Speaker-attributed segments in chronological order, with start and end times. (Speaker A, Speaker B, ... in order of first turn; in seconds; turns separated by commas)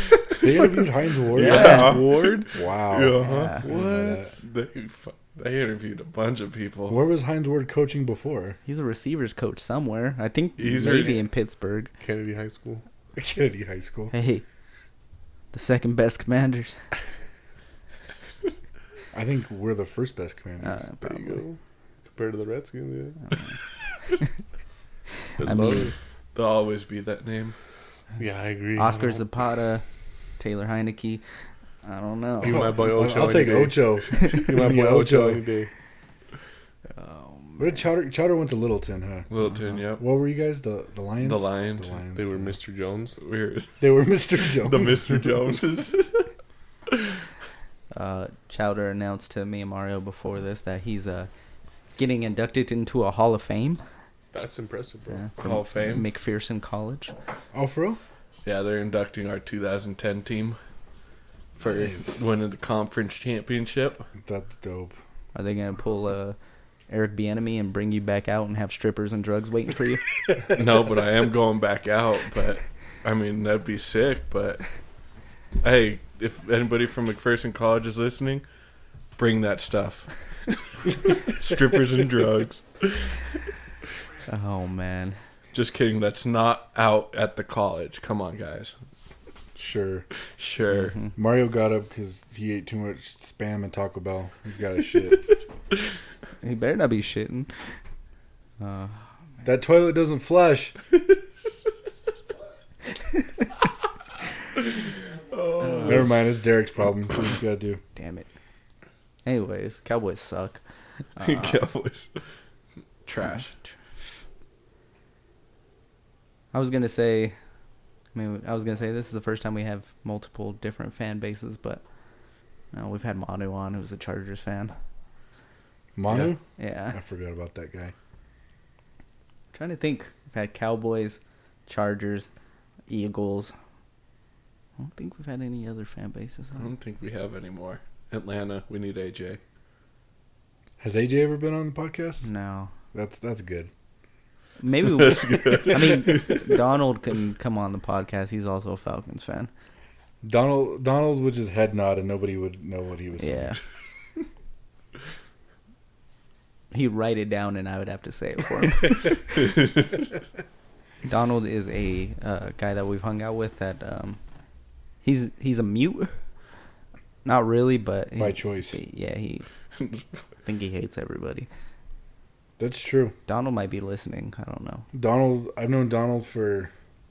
Speaker A: 0.4-2.0, Speaker B: 1.4-2.3, Speaker C: 1.4-7.0, Speaker D: 1.4-2.4, Speaker A: 2.5-4.4, Speaker B: 3.2-3.6, Speaker A: 6.9-8.6, Speaker B: 8.7-11.9, Speaker C: 10.6-11.2, Speaker A: 10.8-11.1, Speaker D: 12.0-12.8, Speaker A: 13.2-14.1, Speaker B: 14.1-14.4, Speaker B: 15.5-16.8, Speaker A: 19.1-20.8, Speaker B: 20.6-21.4, Speaker D: 21.0-23.2, Speaker B: 25.4-25.9, Speaker C: 25.4-27.6, Speaker D: 28.2-29.2, Speaker B: 28.8-29.8, Speaker B: 30.4-31.2, Speaker B: 31.8-32.7, Speaker D: 32.4-35.7, Speaker A: 32.5-35.5, Speaker B: 37.0-37.8, Speaker A: 37.6-39.3, Speaker C: 39.3-40.0, Speaker A: 40.0-42.5, Speaker C: 41.2-42.0, Speaker D: 42.2-43.2, Speaker C: 43.2-46.3, Speaker A: 43.8-45.1, Speaker B: 47.9-51.3, Speaker B: 52.0-53.8, Speaker D: 54.3-55.2, Speaker B: 55.1-57.1, Speaker C: 55.4-56.1, Speaker A: 57.5-58.0, Speaker C: 58.5-60.6, Speaker A: 61.6-62.2, Speaker C: 61.6-64.1, Speaker A: 64.2-65.0, Speaker B: 65.3-66.4, Speaker B: 66.9-70.0, Speaker C: 70.5-74.7, Speaker C: 75.6-78.5, Speaker C: 79.2-80.2, Speaker C: 80.9-83.2, Speaker B: 84.3-85.2, Speaker C: 85.5-88.7, Speaker A: 89.6-90.1, Speaker C: 90.4-91.0, Speaker A: 91.1-95.3, Speaker B: 96.4-97.5, Speaker B: 98.6-99.0, Speaker A: 99.4-100.8, Speaker C: 105.3-106.2, Speaker B: 105.6-106.1, Speaker A: 105.8-107.8, Speaker B: 108.0-108.3, Speaker B: 109.2-110.6, Speaker B: 111.2-111.6, Speaker C: 111.2-112.1, Speaker C: 113.1-113.5, Speaker B: 116.5-117.4, Speaker B: 118.1-121.8, Speaker B: 122.7-124.8, Speaker A: 126.0-126.4, Speaker B: 126.6-127.0, Speaker A: 126.9-127.9, Speaker B: 129.5-132.3, Speaker B: 132.9-133.5, Speaker B: 134.8-136.7, Speaker C: 136.6-139.4, Speaker A: 140.8-142.3, Speaker B: 142.2-142.7, Speaker A: 142.9-143.7, Speaker B: 144.6-149.5, Speaker C: 144.8-146.6, Speaker A: 150.2-153.6, Speaker B: 153.2-153.6, Speaker B: 156.7-159.5, Speaker B: 161.1-164.2, Speaker B: 165.0-166.1, Speaker B: 167.2-169.5, Speaker A: 168.2-168.8, Speaker B: 170.5-171.5, Speaker A: 172.6-173.2, Speaker B: 173.3-174.9, Speaker A: 174.9-176.7